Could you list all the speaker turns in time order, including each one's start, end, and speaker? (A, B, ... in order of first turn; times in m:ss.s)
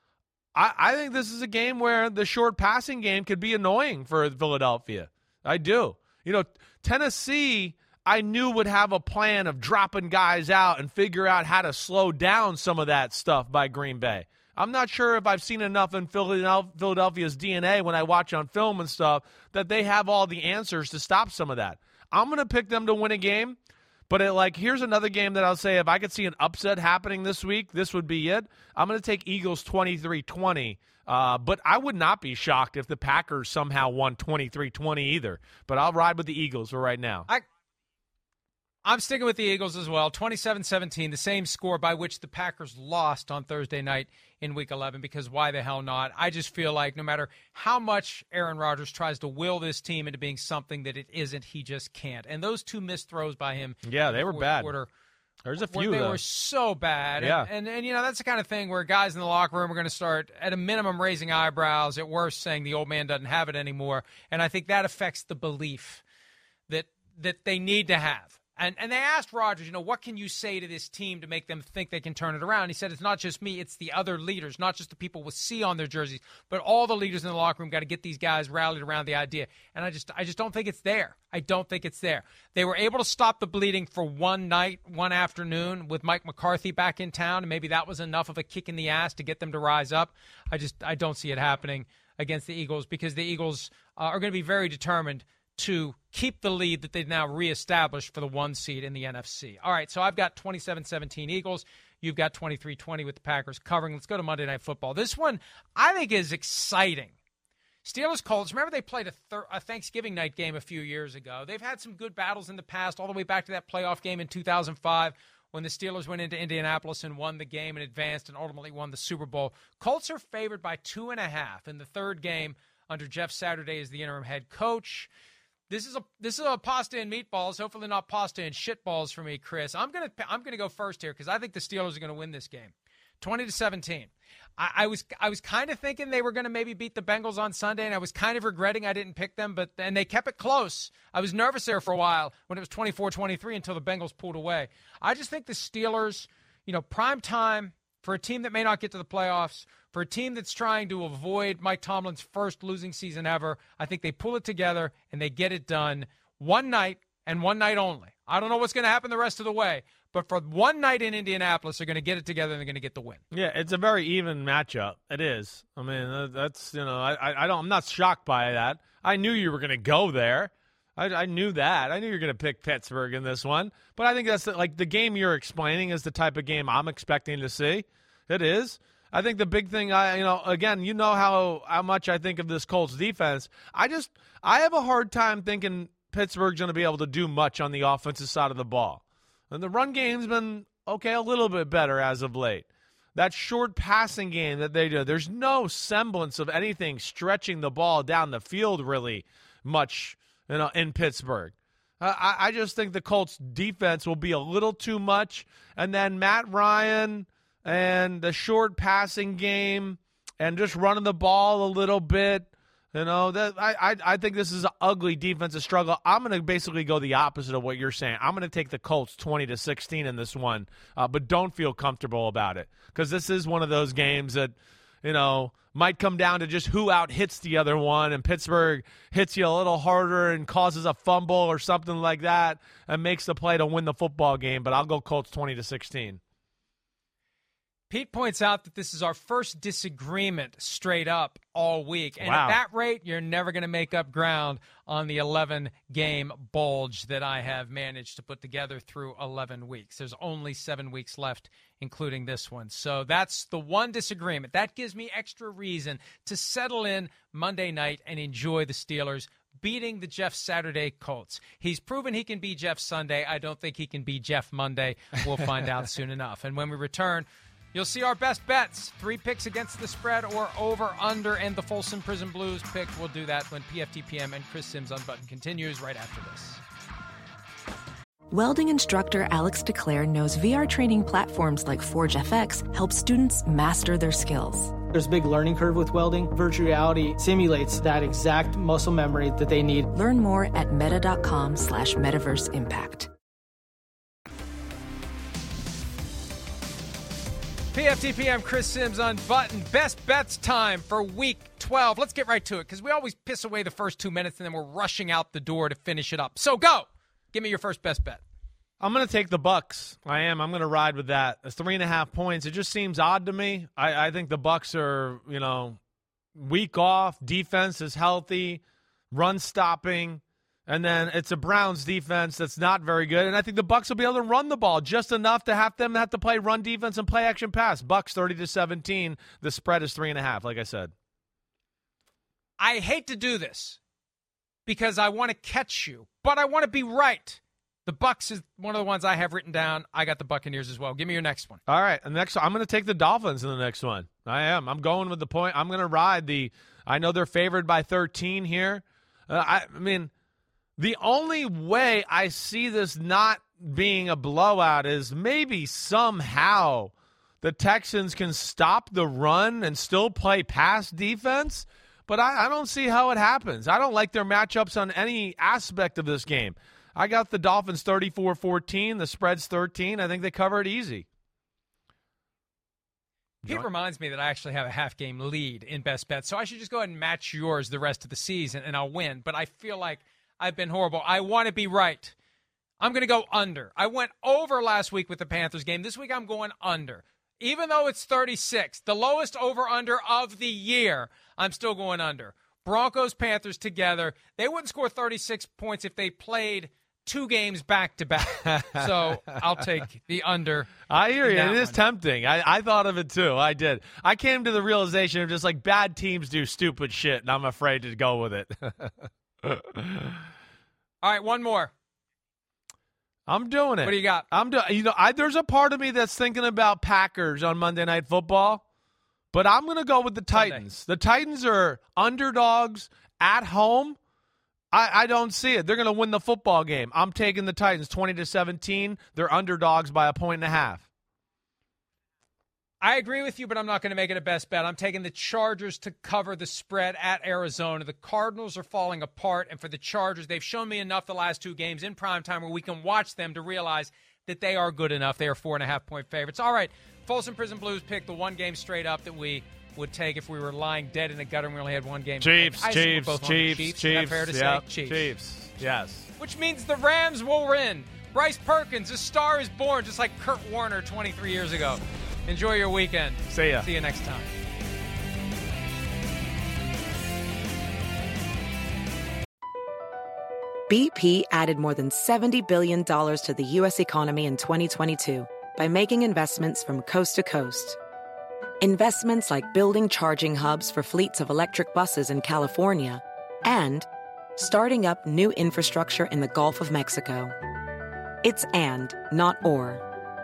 0:00.6-0:23.6 A
0:24.1-0:37.3 A
0:38.8-0:54.9 B
0:53.8-0:54.7 A
0:55.4-0:56.2 A
0:55.6-1:06.0 B
0:57.2-0:57.5 A
1:06.7-1:47.1 B
1:47.8-2:05.1 B
2:05.7-2:43.2 B
2:43.3-3:56.2 A
3:57.9-4:36.6 B
4:02.2-4:02.6 A
4:38.3-4:44.8 C
4:44.9-4:49.9 D
4:49.9-4:53.1 C
4:57.7-5:08.2 B
5:08.8-5:15.8 A
5:16.4-5:30.9 A
5:32.6-5:33.8 B
5:34.7-5:41.6 B
5:41.7-5:50.1 A
5:50.8-6:11.1 A
6:13.4-6:22.2 B
6:22.8-6:41.8 B
6:38.3-6:39.2 A
6:40.9-6:50.2 A
6:51.0-6:51.7 B
6:53.3-6:58.6 A
6:53.8-6:54.3 B
6:59.3-7:04.0 A
7:00.3-7:00.6 B
7:04.7-7:10.9 A
7:12.8-7:35.1 B
7:32.2-7:36.1 A
7:36.2-7:44.3 B
7:43.3-7:43.7 A
7:50.7-7:57.8 E
7:58.6-8:07.3 E
8:08.2-8:09.8 E